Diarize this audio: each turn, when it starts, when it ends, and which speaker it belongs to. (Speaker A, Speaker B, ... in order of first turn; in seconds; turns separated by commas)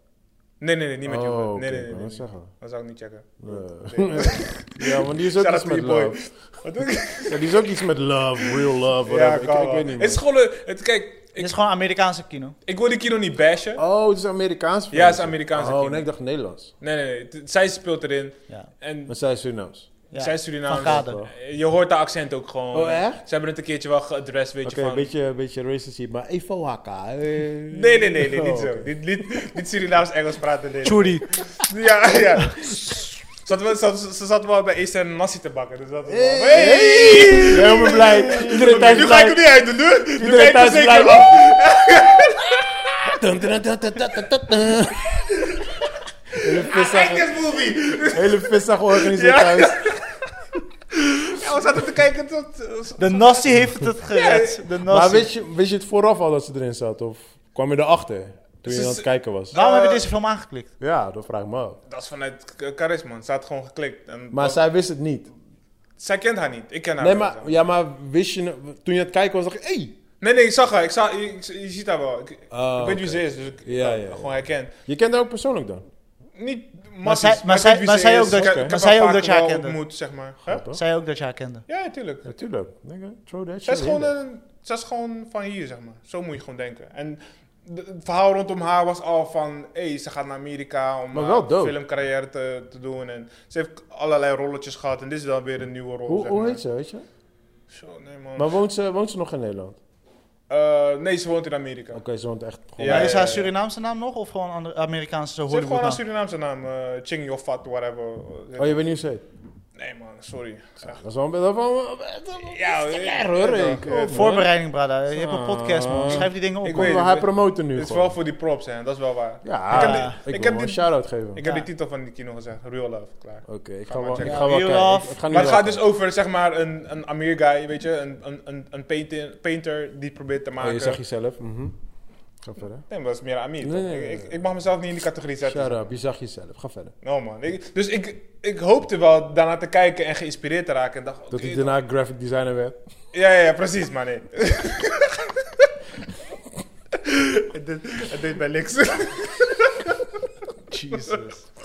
Speaker A: 0.6-7.7, Speaker B: 1.0-2.5, Speaker B: 3.4-6.2, Speaker B: 7.3-10.2, Speaker A: 8.5-11.5, Speaker C: 11.4-12.6, Speaker A: 12.7-13.8, Speaker B: 13.8-16.7, Speaker A: 14.9-16.1, Speaker A: 16.8-19.1, Speaker B: 19.1-19.9, Speaker C: 20.1-21.2, Speaker A: 20.1-25.1, Speaker B: 20.7-21.3, Speaker B: 22.7-23.2, Speaker B: 24.6-28.9, Speaker A: 27.7-42.9, Speaker C: 30.8-31.3, Speaker B: 36.1-39.4, Speaker B: 40.2-41.5, Speaker B: 43.0-45.3, Speaker A: 45.4-45.8, Speaker B: 46.3-47.3, Speaker A: 46.4-50.2, Speaker B: 48.0-50.0, Speaker A: 50.9-54.7, Speaker C: 53.0-55.3, Speaker B: 54.9-59.5, Speaker A: 58.6-60.0, Speaker C: 59.5-60.7, Speaker B: 60.8-61.8, Speaker A: 61.9-64.6, Speaker B: 64.3-65.3, Speaker A: 66.0-67.6, Speaker B: 67.0-69.9, Speaker A: 70.2-74.7, Speaker B: 72.5-75.8, Speaker A: 76.3-80.6, Speaker C: 77.0-79.8, Speaker B: 78.3-78.7, Speaker B: 80.4-80.8, Speaker C: 80.7-81.6, Speaker A: 81.7-82.3, Speaker B: 82.2-84.1, Speaker A: 83.6-96.6, Speaker B: 91.1-91.8, Speaker B: 96.1-97.0, Speaker A: 97.7-98.5, Speaker B: 98.4-99.8, Speaker A: 100.5-102.0, Speaker B: 101.9-103.2, Speaker A: 102.8-103.5, Speaker C: 102.8-106.0, Speaker A: 105.5-108.8, Speaker B: 108.6-109.2, Speaker A: 109.8-111.0, Speaker B: 110.8-114.5, Speaker A: 112.4-114.4, Speaker C: 113.9-117.1, Speaker B: 115.1-118.2, Speaker A: 116.1-124.7, Speaker B: 119.4-121.4, Speaker C: 119.7-120.1, Speaker B: 123.5-125.8, Speaker C: 124.2-125.5, Speaker A: 125.3-131.0, Speaker B: 130.6-131.7, Speaker B: 132.4-132.8, Speaker A: 132.9-135.8, Speaker B: 133.6-134.3, Speaker B: 135.4-136.9, Speaker A: 137.0-141.8, Speaker B: 141.3-142.8, Speaker A: 143.1-145.7, Speaker A: 147.0-150.1, Speaker C: 150.7-151.5